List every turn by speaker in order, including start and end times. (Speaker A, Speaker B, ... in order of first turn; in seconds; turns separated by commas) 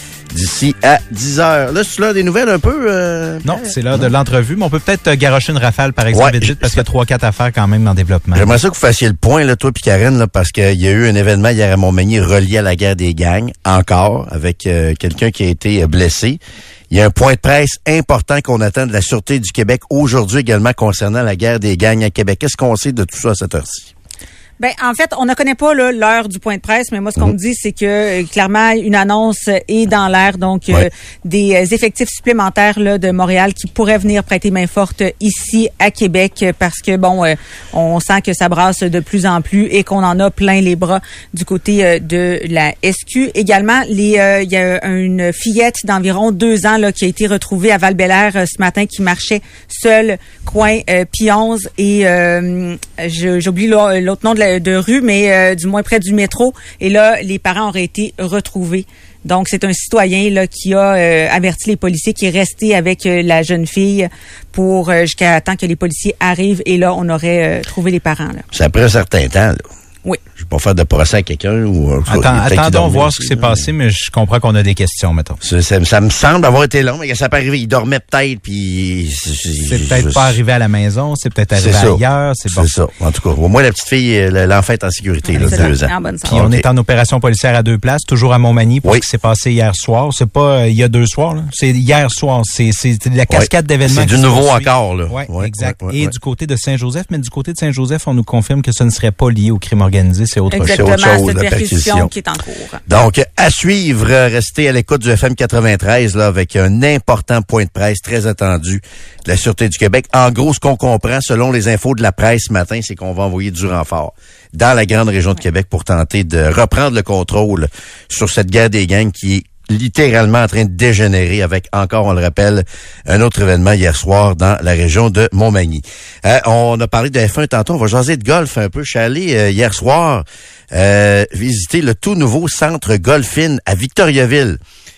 Speaker A: 0.3-4.1, Speaker B: 3.4-8.5, Speaker A: 6.1-6.8, Speaker A: 8.3-16.4, Speaker A: 16.9-23.9, Speaker C: 24.6-68.5, Speaker A: 68.5-69.7, Speaker A: 70.4-73.7, Speaker B: 72.1-75.4, Speaker A: 75.4-80.4, Speaker B: 79.7-82.7, Speaker A: 81.6-86.7, Speaker C: 85.3-86.4, Speaker B: 85.4-85.7, Speaker B: 86.2-100.9, Speaker A: 93.3-96.1, Speaker C: 100.5-102.8, Speaker A: 100.7-102.1, Speaker A: 102.9-134.6